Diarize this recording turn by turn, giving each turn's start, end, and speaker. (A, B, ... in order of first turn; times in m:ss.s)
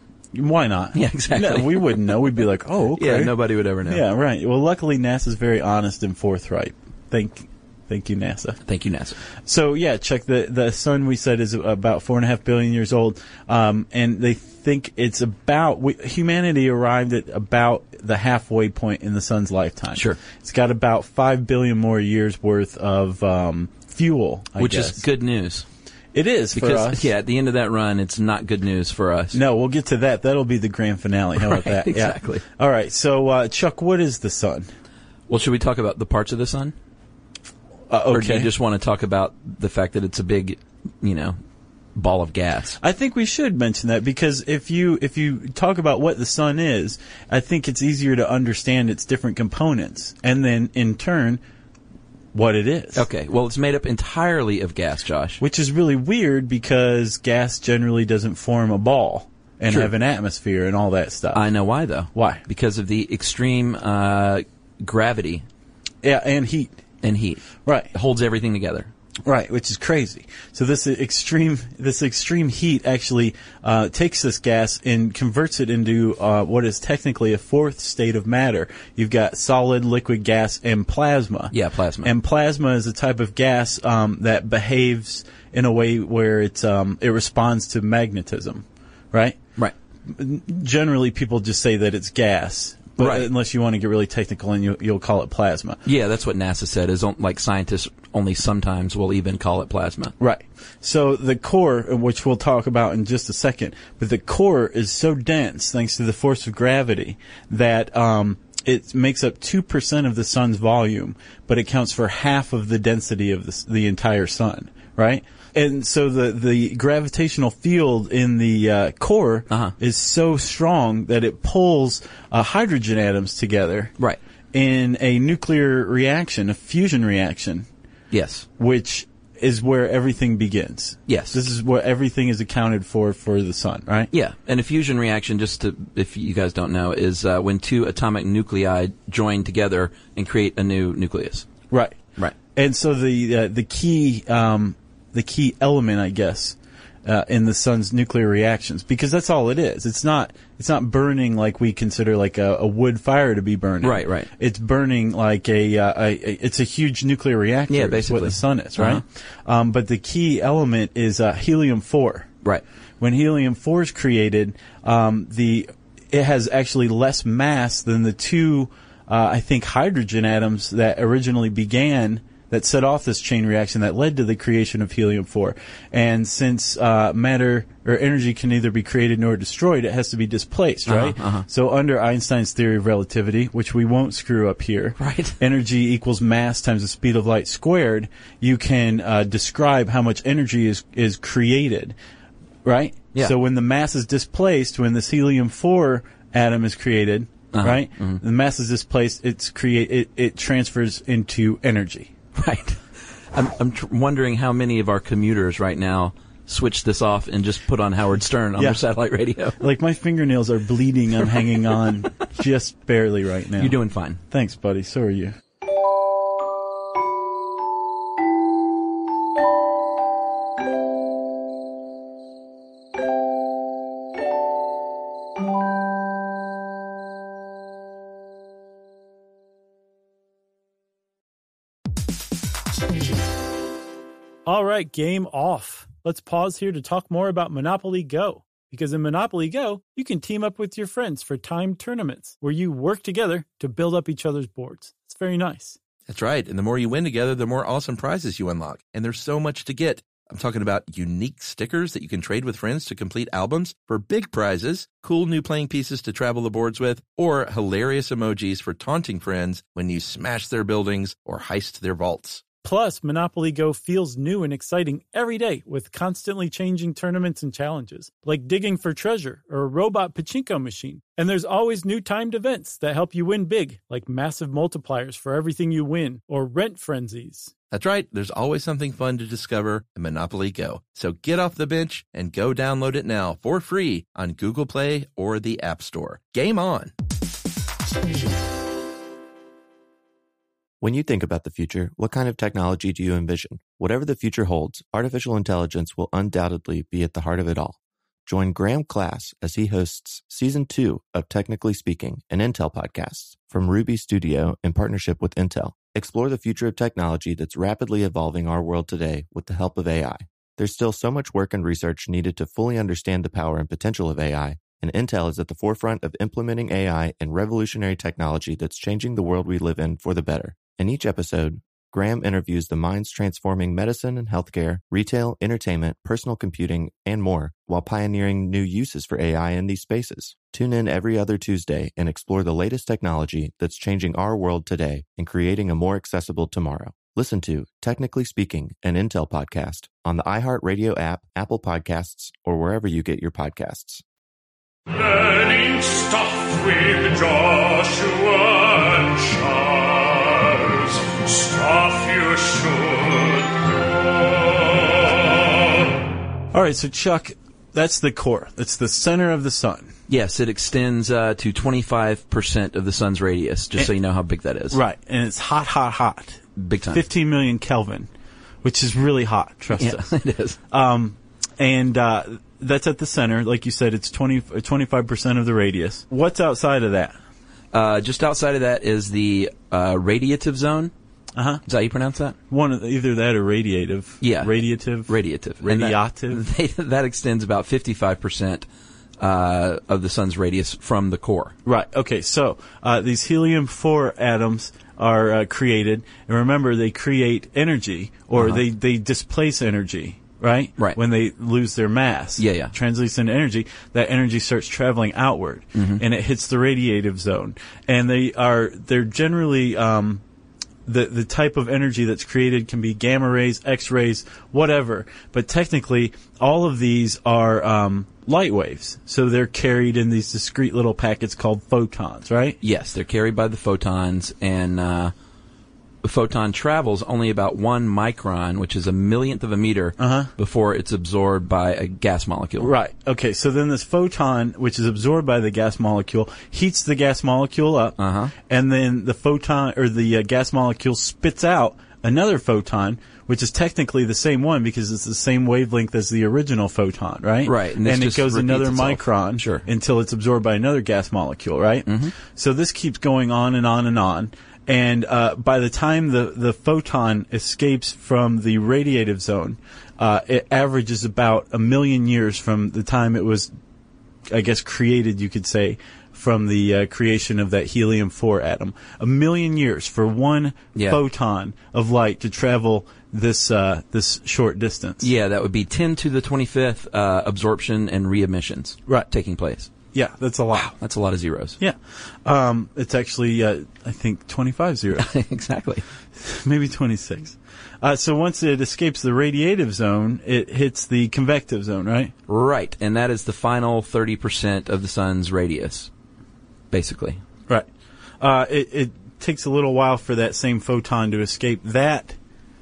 0:00.3-0:03.3 A
0:00.9-0:02.2 B
0:03.0-0:04.0 B
0:03.8-0:08.6 A
0:08.6-0:09.2 B
0:09.4-0:25.0 A
0:19.9-0:20.2 B
0:24.6-0:25.6 B
0:26.1-0:27.1 A
0:26.5-0:29.4 B
0:29.3-0:34.7 A
0:31.4-0:32.4 B
0:35.3-0:36.7 B
0:37.9-0:38.5 A
0:38.1-0:41.4 B
0:42.0-0:42.8 B
0:42.8-0:51.4 A
0:52.3-0:53.0 A
0:52.9-0:55.4 B
0:55.4-1:01.4 A
0:59.7-0:59.9 B
1:01.3-1:05.4 B
1:02.1-1:02.4 A
1:06.0-1:06.7 A
1:07.0-1:08.9 B
1:07.6-1:07.9 A
1:09.2-1:29.4 A
1:21.5-1:22.1 B
1:30.1-1:35.8 A
1:33.0-1:33.3 B
1:35.8-1:40.1 B
1:40.2-2:03.9 A
2:04.5-2:07.7 A
2:08.1-2:08.4 B
2:08.6-2:14.1 A
2:11.1-2:11.4 B
2:14.1-2:21.5 B
2:21.7-2:22.0 A
2:22.5-2:42.3 A
2:33.8-2:34.3 B
2:37.7-2:39.0 B
2:43.0-3:11.9 A
3:00.9-3:01.4 B
3:05.0-3:05.4 B
3:12.6-3:22.1 A
3:17.5-3:18.2 B
3:22.3-3:22.8 B
3:23.3-3:29.6 B
3:29.6-3:33.8 A
3:33.6-3:34.2 B
3:34.3-3:35.4 A
3:54.4-4:05.8 C
4:06.1-4:22.4 D
4:22.6-4:37.5 C
4:37.7-4:46.9 D
4:50.8-5:44.0 E
5:44.9-5:53.5 F
5:54.7-5:55.3 F
5:56.5-5:59.9 A
6:00.1-6:04.8 B
6:04.7-6:08.1 A
6:06.6-6:07.0 B
6:08.6-6:10.1 A
6:09.7-6:10.6 B
6:10.7-6:17.2 A
6:17.7-6:20.9 B
6:21.3-6:21.6 A
6:21.6-6:22.4 B
6:22.5-6:26.4 A
6:24.2-6:24.5 B
6:25.1-6:28.6 B
6:29.2-6:31.5 B
6:31.6-6:50.2 A
6:38.3-6:38.6 B
6:42.4-6:42.7 B
6:45.7-6:46.0 B
6:50.8-7:02.6 A
7:02.6-7:05.1 B
7:06.0-7:12.7 B
7:10.0-7:10.3 A
7:12.6-7:43.5 A
7:18.0-7:18.3 B
7:27.4-7:29.6 B
7:31.8-7:32.2 B
7:44.3-7:55.1 A
7:50.7-7:51.0 B
7:55.0-7:59.7 B
7:59.9-8:00.7 A
8:00.5-8:01.6 B
8:01.6-8:05.1 A
8:05.0-8:05.8 B
8:06.2-8:12.1 A
8:12.3-8:15.9 B
8:16.7-8:17.2 B
8:18.2-8:22.2 A